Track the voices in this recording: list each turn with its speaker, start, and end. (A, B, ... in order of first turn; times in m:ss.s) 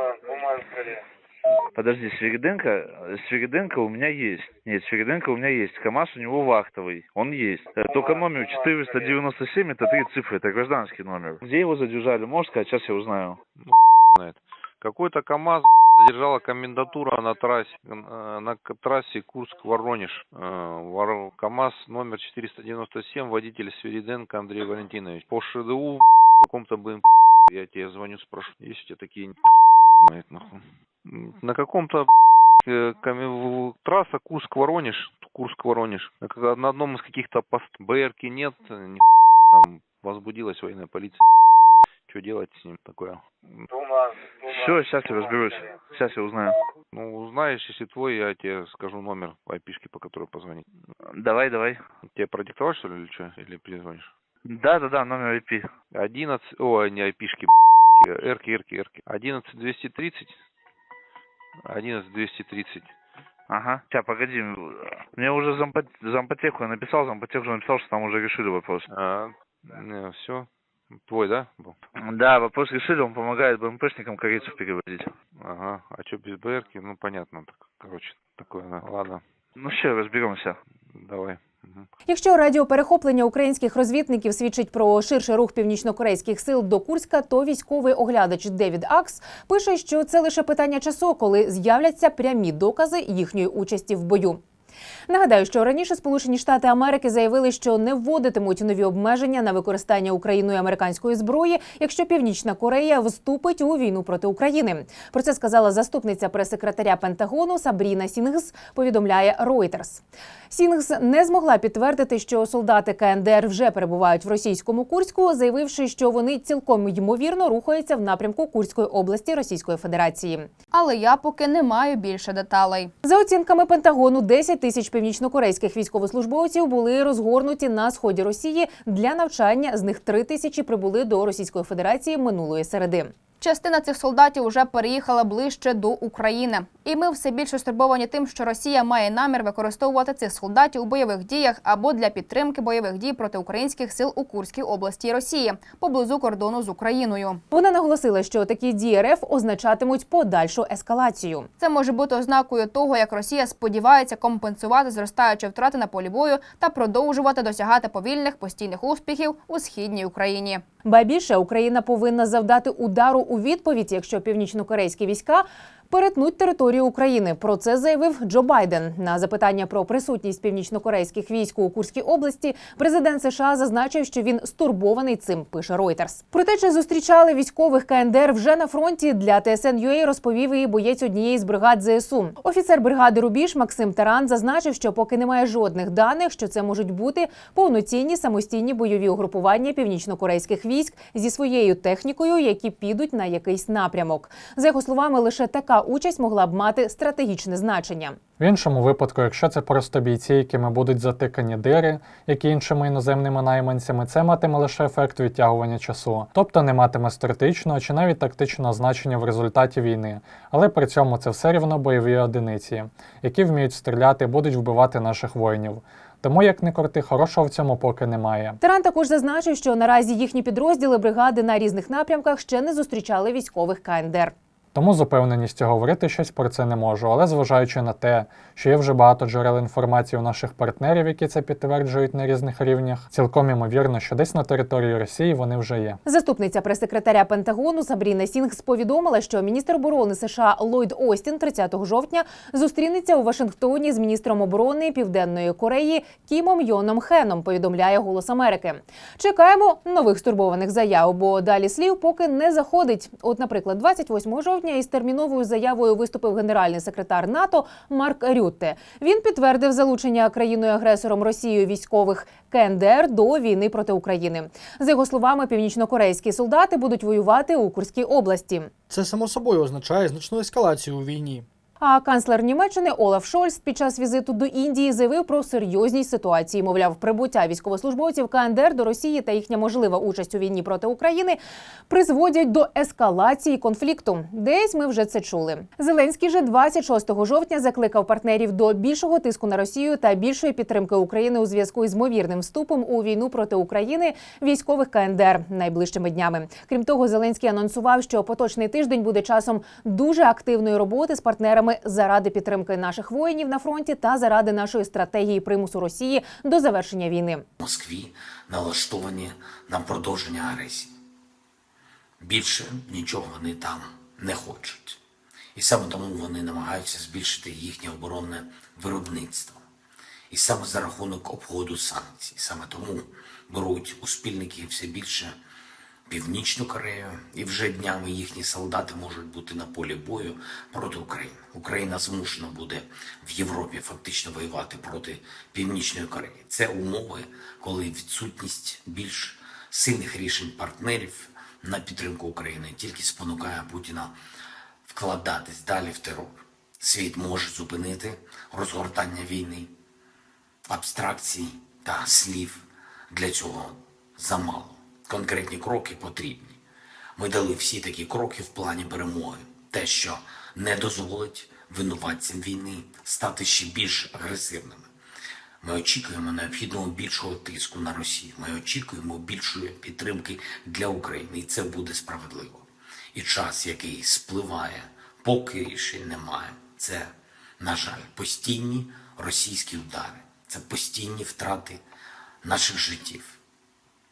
0:01.8-0:13.4 A
0:13.6-0:29.4 B
0:30.0-0:32.1 B
0:32.6-0:41.2 B
0:42.1-0:43.7 B
0:44.4-0:46.6 A
0:46.9-0:50.6 B
0:51.1-0:51.8 A
0:52.1-0:54.1 B
0:54.5-0:55.7 A
0:55.9-1:00.4 B
1:01.7-1:02.9 B
1:03.5-1:08.9 A
1:08.9-1:10.5 B
1:11.0-1:11.8 B
1:12.0-1:15.1 A
1:15.4-1:19.2 B
1:19.6-1:20.6 A
1:20.9-1:21.9 B
1:22.1-1:34.4 C
1:35.1-2:00.5 C
2:00.7-2:02.9 D
2:03.0-2:13.1 C
2:13.4-2:27.4 D
2:27.5-2:31.5 C
2:31.6-2:40.6 D
2:40.8-3:18.2 C
3:18.4-3:38.6 E
3:38.6-3:44.3 C
3:44.7-3:56.0 E
3:56.0-4:28.7 C
4:28.9-4:31.5 F
4:31.8-5:07.4 C
5:07.6-5:10.9 G
5:12.2-5:15.0 G
5:15.6-5:19.6 G
5:20.3-5:25.4 G
5:26.1-5:44.2 G
5:44.9-5:49.7 G
5:50.7-5:56.6 G
5:57.2-6:04.9 G
6:05.6-6:21.8 G
6:22.4-6:23.4 G